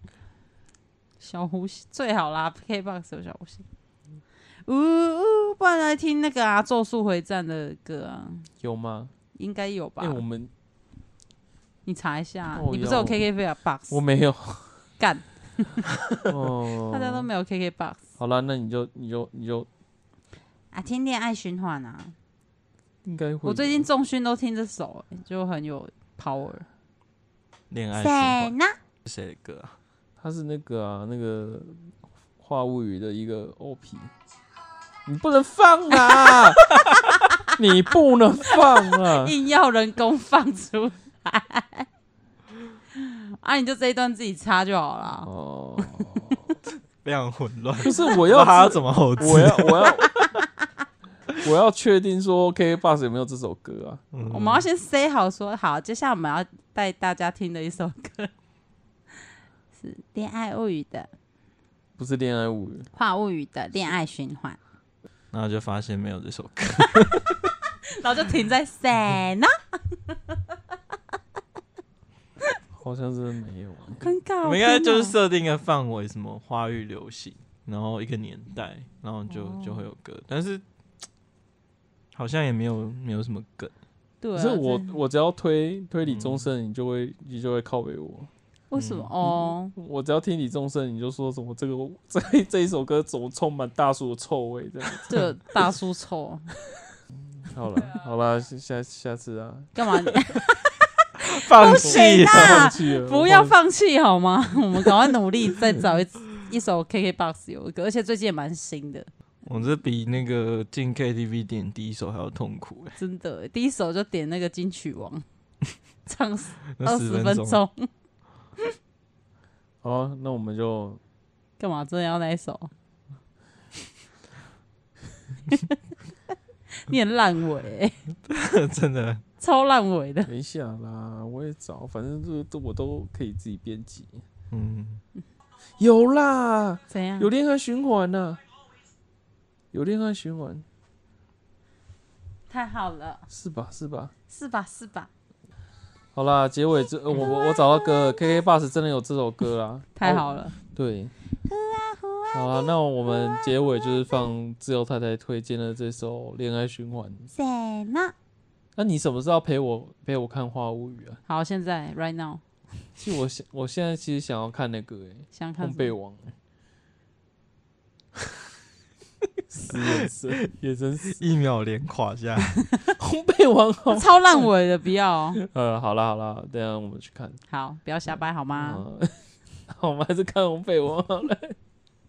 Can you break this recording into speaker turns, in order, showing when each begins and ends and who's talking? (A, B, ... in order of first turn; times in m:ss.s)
0:01.2-0:03.6 A
0:04.7-0:08.5 A
0:08.6-0:09.1 B
0:09.3-0:10.2 A
0:10.0-0:10.5 B
0:11.8-0:14.0 A
0:12.5-0:13.3 B
0:13.9-0:14.8 B
0:15.0-0:15.9 A
0:16.2-0:17.3 B
0:16.8-0:18.0 A
0:18.2-0:19.7 B
0:20.7-0:22.1 A
0:23.0-0:23.8 B
0:23.4-0:26.6 A
0:27.7-0:28.5 C
0:28.0-0:28.7 A
0:29.0-0:29.7 C
0:30.2-0:34.1 B
0:35.0-0:39.3 B
0:36.1-0:36.3 A
0:37.1-0:37.4 A
0:38.5-0:41.8 A
0:43.0-0:46.5 A
0:45.2-0:46.4 B
0:47.0-0:50.4 C
0:47.8-0:50.1 B
0:51.4-0:54.0 B
0:54.1-0:54.6 C
0:54.2-0:58.3 A
0:59.8-1:01.1 A
1:02.0-1:02.9 B
1:02.9-1:04.6 A
1:05.3-1:07.5 C
1:07.9-1:10.4 A
1:12.8-1:14.1 B
1:14.0-1:15.1 A
1:14.4-1:20.6 C
1:19.3-1:19.8 A
1:22.1-1:23.7 C
1:24.2-1:24.9 A
1:24.4-1:28.3 B
1:26.1-1:26.4 C
1:28.7-1:29.7 A
1:28.7-1:29.1 C
1:29.2-1:35.2 B
1:35.0-1:36.4 A
1:37.4-1:40.2 B
1:39.7-1:49.1 A
1:41.2-1:42.7 C
1:41.8-1:43.5 B
1:49.4-1:53.0 C
1:53.0-1:55.2 A
1:56.0-1:57.9 A
1:56.8-1:57.6 C
1:59.8-2:01.0 B
2:01.6-2:02.7 A
2:05.4-2:05.8 A
2:06.8-2:08.0 A
2:08.3-2:09.2 C
2:09.4-2:10.3 A
2:10.2-2:14.2 B
2:14.5-2:15.0 C
2:15.8-2:18.4 B
2:16.9-2:17.3 A
2:19.7-2:20.6 B
2:22.5-2:23.2 A
2:23.3-2:24.1 B
2:24.3-2:25.1 A
2:26.1-2:31.1 B
2:30.0-2:30.5 A
2:31.4-2:33.4 A
2:32.3-2:37.3 B
2:37.3-2:38.1 A
2:38.8-2:41.2 B
2:41.3-2:42.4 A
2:43.0-2:46.3 B
2:45.3-2:45.9 A
2:49.5-2:51.2 B
2:51.1-2:52.6 C
2:53.0-2:54.5 B
2:53.9-2:55.4 A
2:55.4-2:57.4 B
2:57.5-2:58.8 A
2:58.5-3:01.6 B